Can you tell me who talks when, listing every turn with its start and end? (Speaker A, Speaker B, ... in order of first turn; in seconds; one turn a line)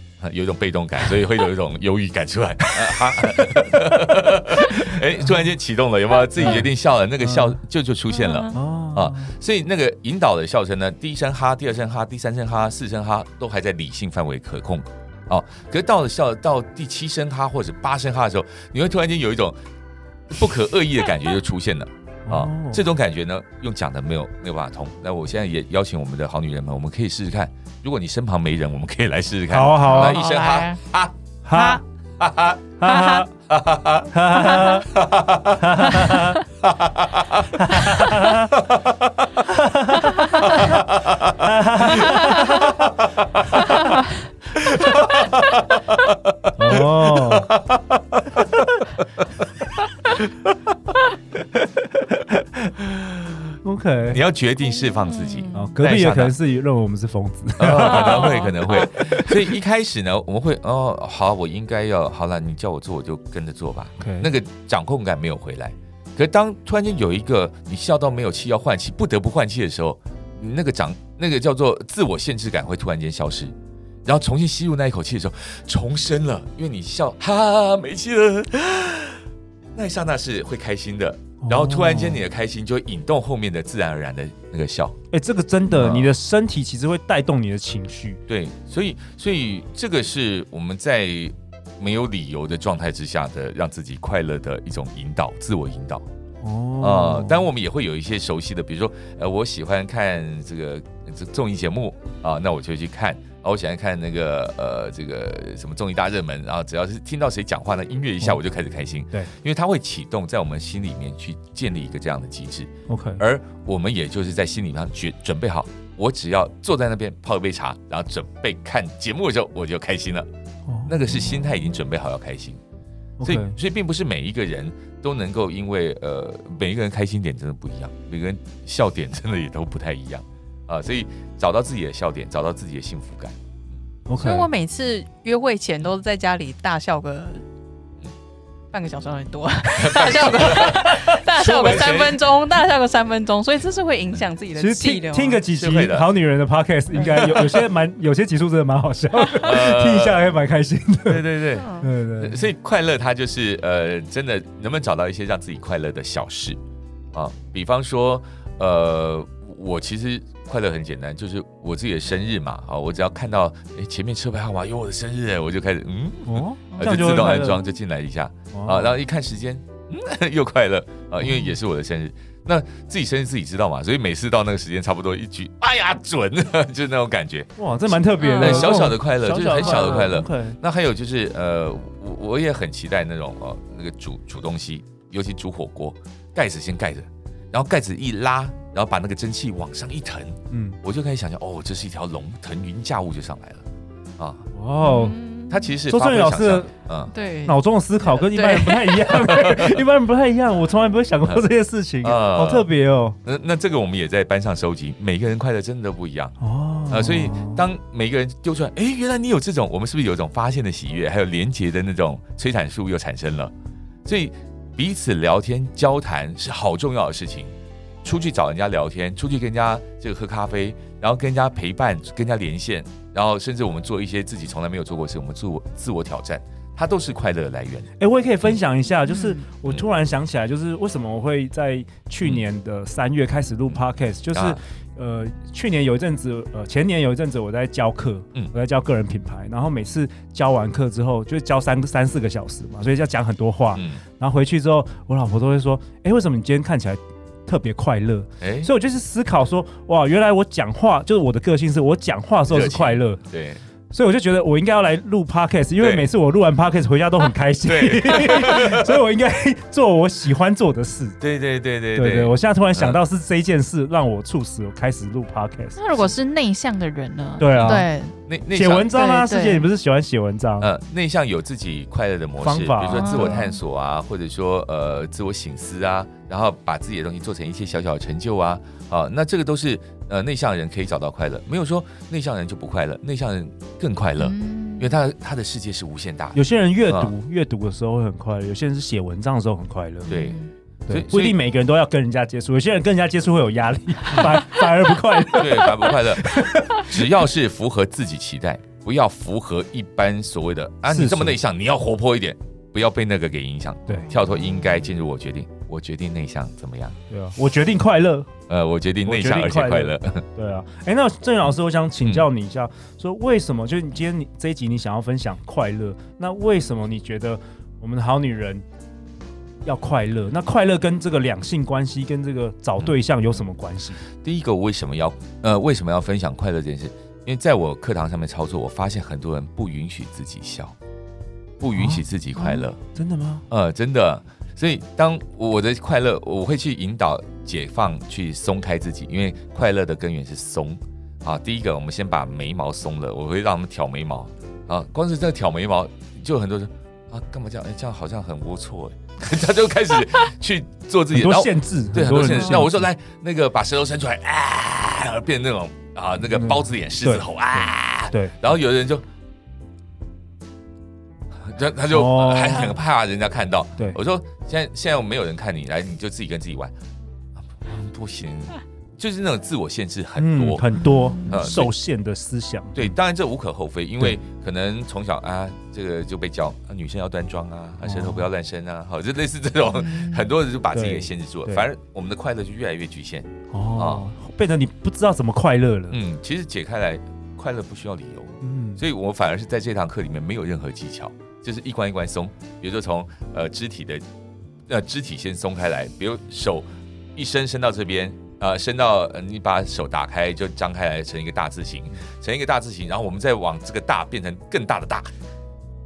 Speaker A: 0.2-19.6
Speaker B: 6.4-6.7
Speaker B: 7.2-7.6
Speaker C: 8.2-8.6
Speaker B: 8.5-9.3
Speaker A: 20.3-31.2
Speaker B: 22.3-22.8
Speaker B: 29.5-30.2
Speaker C: 29.9-30.8
Speaker B: 31.4-31.8
Speaker C: 31.5-31.8
Speaker A: 32.2-32.7
Speaker B: 32.8-33.3
Speaker C: 32.9-33.2
Speaker A: 33.5-39.2
Speaker B: 34.1-34.9
Speaker C: 34.4-34.8
Speaker B: 35.6-36.4
Speaker B: 37.5-38.5
Speaker B: 39.5-40.8
Speaker A: 40.4-43.7
Speaker B: 41.3-42.8
Speaker A: 44.5-49.2
Speaker B: 46.6-47.5
Speaker A: 50.1-50.7
Speaker A: 51.6-52.1
Speaker A: 52.6-53.5
Speaker B: 53.6-54.2
Speaker A: 54.1-56.4
Speaker C: 55.0-55.8
Speaker B: 55.5-59.5
Speaker A: 57.6-73.5
Speaker C: 57.8-58.9
Speaker B: 64.0-64.3
Speaker A: 74.0-79.2
Speaker A: 79.8-85.0
Speaker B: 81.4-82.2
Speaker B: 85.1-88.2
Speaker A: 85.7-86.1
Speaker A: 88.3-96.0
Speaker B: 96.4-97.5
Speaker A: 96.8-120.3
Speaker B: 112.9-113.2
Speaker B: 120.7-121.1
Speaker A: 120.9-122.6
Speaker B: 123.2-123.6
Speaker A: 123.2-133.3
Speaker B: 134.1-134.5
Speaker C: 134.1-137.4
Speaker C: 138.7-145.4
Speaker A: 139.8-142.3
Speaker B: 144.6-152.5
Speaker A: 145.5-146.1
Speaker A: 147.0-147.6
Speaker A: 149.3-150.2
Speaker A: 151.1-156.6
Speaker C: 151.6-151.9
Speaker A: 157.1-193.7
Speaker B: 166.3-167.6
Speaker B: 168.5-168.9
Speaker B: 177.6-180.6
Speaker C: 178.2-178.8
Speaker B: 190.5-190.8
Speaker A: 194.2-194.5
Speaker B: 194.5-195.2
Speaker C: 194.8-195.8
Speaker A: 195.5-197.1
Speaker B: 195.9-196.7
Speaker C: 197.1-197.6
Speaker B: 197.5-203.2
Speaker C: 198.3-199.1
Speaker A: 199.3-199.8
Speaker A: 202.0-202.7
Speaker A: 203.2-206.4
Speaker B: 206.4-207.6
Speaker A: 206.9-213.5
Speaker A: 214.1-227.9
Speaker B: 228.0-253.2
Speaker C: 229.1-229.4
Speaker A: 234.3-234.6
Speaker A: 243.8-244.0
Speaker A: 248.4-248.7
Speaker A: 252.5-253.6
Speaker B: 253.9-261.2
Speaker A: 255.8-256.1
Speaker A: 257.6-259.0
Speaker A: 261.2-263.0
Speaker B: 261.9-265.8
Speaker C: 265.8-268.2
Speaker B: 267.4-267.9
Speaker A: 267.5-268.9
Speaker B: 268.5-270.7
Speaker C: 268.9-269.7
Speaker A: 270.6-287.1
Speaker B: 272.4-273.4
Speaker C: 272.9-273.6
Speaker C: 284.2-284.9
Speaker B: 286.3-290.2
Speaker C: 290.1-290.5
Speaker A: 290.1-291.4
Speaker B: 290.9-297.0
Speaker A: 295.3-307.0
Speaker B: 300.9-301.4
Speaker C: 303.9-304.4
Speaker B: 307.1-308.3
Speaker A: 308.5-310.3
Speaker B: 309.1-318.6
Speaker A: 312.0-312.3
Speaker B: 319.6-324.0
Speaker A: 324.2-330.8
Speaker A: 331.6-332.8
Speaker B: 331.7-333.4
Speaker A: 333.5-359.1
Speaker B: 351.1-352.8
Speaker B: 356.3-358.4
Speaker A: 361.4-366.7
Speaker B: 361.9-362.8
Speaker A: 367.5-370.7
Speaker B: 370.2-372.9
Speaker C: 370.9-371.3
Speaker A: 371.3-371.7
Speaker A: 372.8-384.1
Speaker B: 377.8-378.3
Speaker C: 379.7-380.3
Speaker B: 380.7-381.7
Speaker B: 383.5-386.0
Speaker A: 385.9-394.0
Speaker B: 388.4-388.8
Speaker A: 394.7-405.1